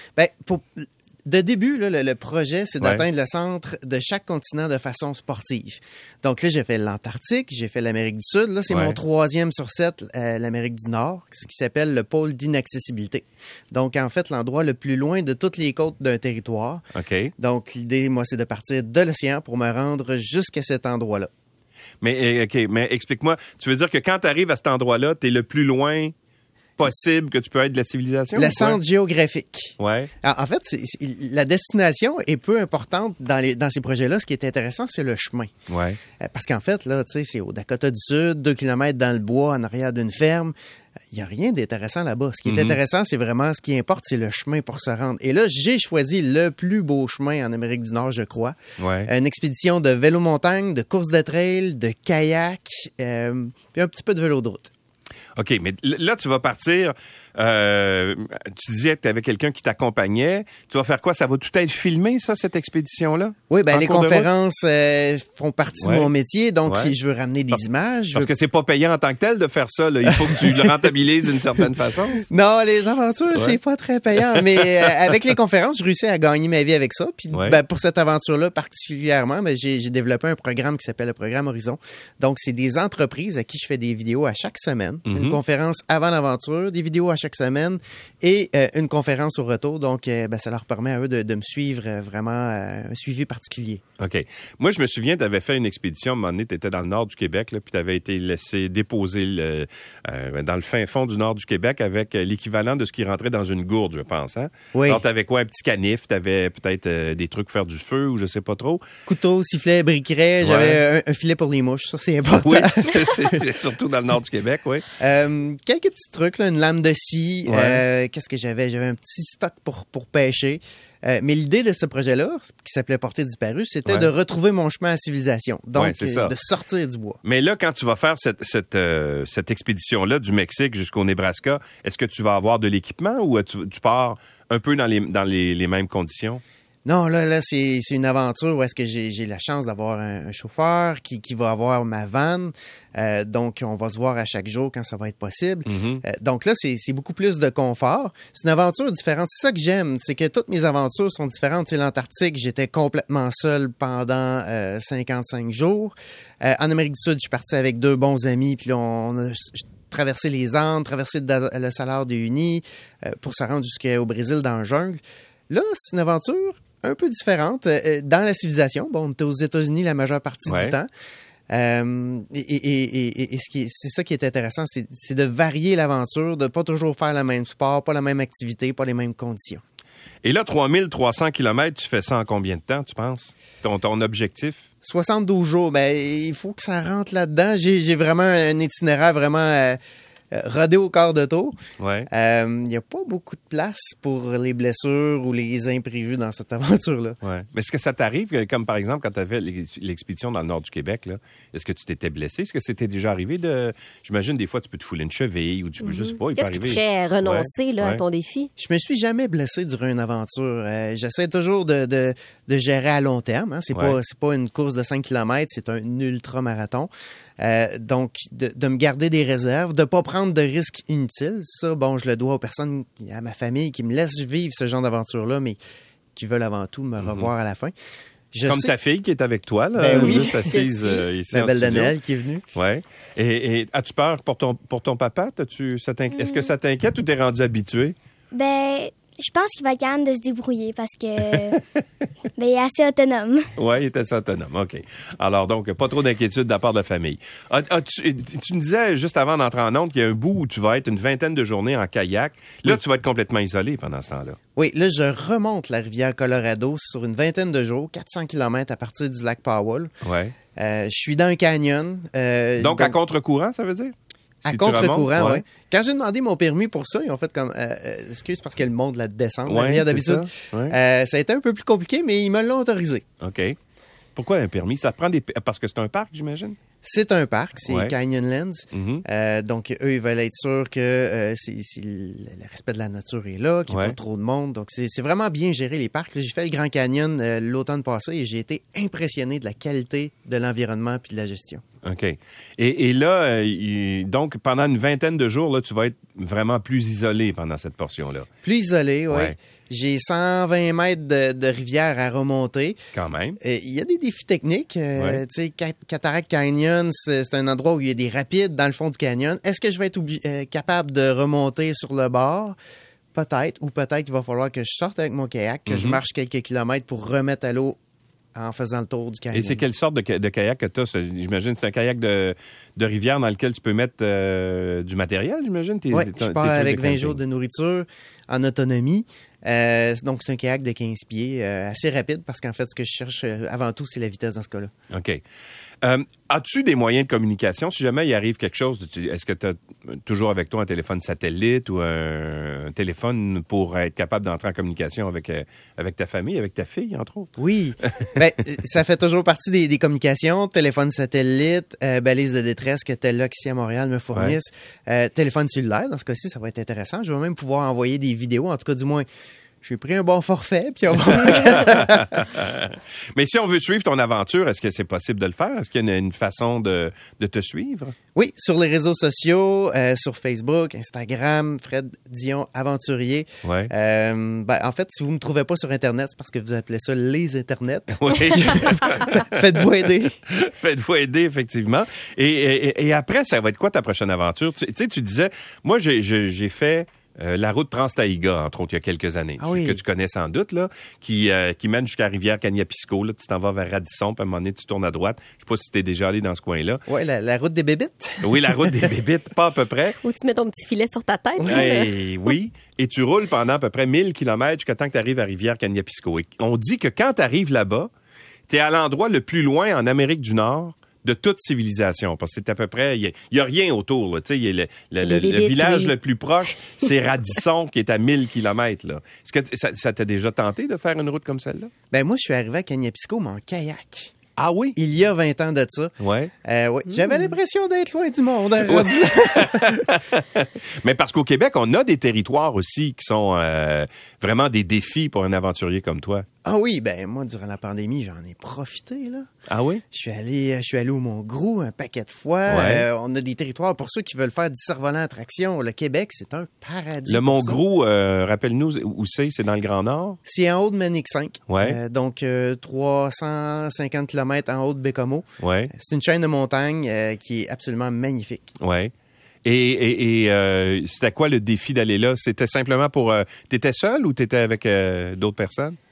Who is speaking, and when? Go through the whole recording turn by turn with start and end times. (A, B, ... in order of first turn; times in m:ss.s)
0:00.2-0:16.8 A
0:08.7-0:09.0 B
0:16.9-0:17.3 B
0:17.4-0:21.3 A
0:22.0-0:26.1 B
0:26.8-0:28.8 B
0:28.4-0:35.5 A
0:29.8-0:30.1 B
0:35.7-0:36.0 B
0:36.2-0:40.5 A
0:41.1-0:54.7 A
0:42.4-0:42.8 B
0:48.8-0:49.1 B
0:55.4-1:04.3 B
1:03.5-1:08.3 A
1:05.8-1:06.1 B
1:06.7-1:06.9 B
1:08.2-1:12.2 B
1:10.0-1:10.7 A
1:12.2-1:33.8 A
1:14.2-1:15.1 B
1:17.3-1:17.6 B
1:25.1-1:25.4 B
1:34.0-1:48.8 B
1:44.7-1:45.0 A
1:49.1-1:53.4 A
1:50.4-1:50.8 B
1:52.3-1:54.9 B
1:55.0-2:07.2 A
1:57.5-1:57.8 B
2:05.8-2:06.3 B
2:07.2-2:16.4 B
2:16.8-2:50.9 A
2:25.7-2:26.0 B
2:50.5-2:50.8 B
2:51.5-2:59.6 A
3:00.2-3:04.7 B
3:04.8-3:09.8 A
3:10.3-3:11.6 A
3:11.8-3:12.1 B
3:12.1-3:17.2 A
3:17.2-3:28.0 B
3:25.8-3:28.5 C
3:28.6-3:45.6 A
3:46.2-3:47.7 A
3:47.0-3:47.3 B
3:48.3-3:48.7 A
3:48.4-3:52.0 B
3:49.8-3:50.5 A
3:49.9-3:51.1 C
3:51.3-3:52.5 A
3:52.5-3:58.0 B
3:56.2-3:56.5 D
3:58.3-4:01.6 D
4:01.3-4:01.8 B
4:02.4-4:03.5 D
4:03.6-4:14.4 B
4:14.6-4:19.9 A
4:20.0-4:20.4 B
4:20.6-4:23.0 A
4:22.6-4:23.9 B
4:24.4-4:33.0 A
4:24.4-4:25.4 B
4:29.5-4:30.8 B
4:33.2-4:33.6 B
4:34.2-4:36.6 B
4:36.8-4:51.6 A
4:37.7-4:37.9 B
4:38.7-4:39.0 B
4:43.7-4:44.0 B
4:51.8-4:58.3 B
4:58.4-5:02.8 A
5:02.9-5:03.4 B
5:03.4-5:12.6 A
5:13.1-5:17.8 A
5:15.7-5:16.0 B
5:18.4-5:19.6 A
5:19.3-5:27.2 B
5:25.9-5:34.7 A
5:34.9-5:35.2 B
5:35.8-5:48.2 B
5:47.4-5:59.1 A
5:59.6-6:02.1 A
6:01.2-6:08.0 B
6:08.2-6:20.2 A
6:13.4-6:13.7 B
6:17.9-6:19.4 B
6:20.3-6:36.8 B
6:29.4-6:29.8 A
6:36.9-6:38.9 A
6:38.2-6:40.0 B
6:40.0-6:41.9 C
6:41.4-6:47.9 B
6:48.5-7:01.7 B
6:55.0-6:56.0 C
6:56.6-6:56.9 C
7:01.9-7:04.2 A
7:04.4-7:04.8 B
7:04.8-7:05.9 A
7:06.0-7:06.3 B
7:06.4-7:09.8 A
7:06.9-7:07.2 C
7:08.6-7:16.3 B
7:16.4-7:19.3 A
7:19.5-7:19.8 B
7:19.9-7:27.6 A
7:22.5-7:22.9 B
7:27.1-7:30.2 B
7:30.2-7:38.6 A
7:31.5-7:31.8 B
7:35.4-7:35.7 B
7:38.6-7:38.9 B
7:39.4-7:45.8 B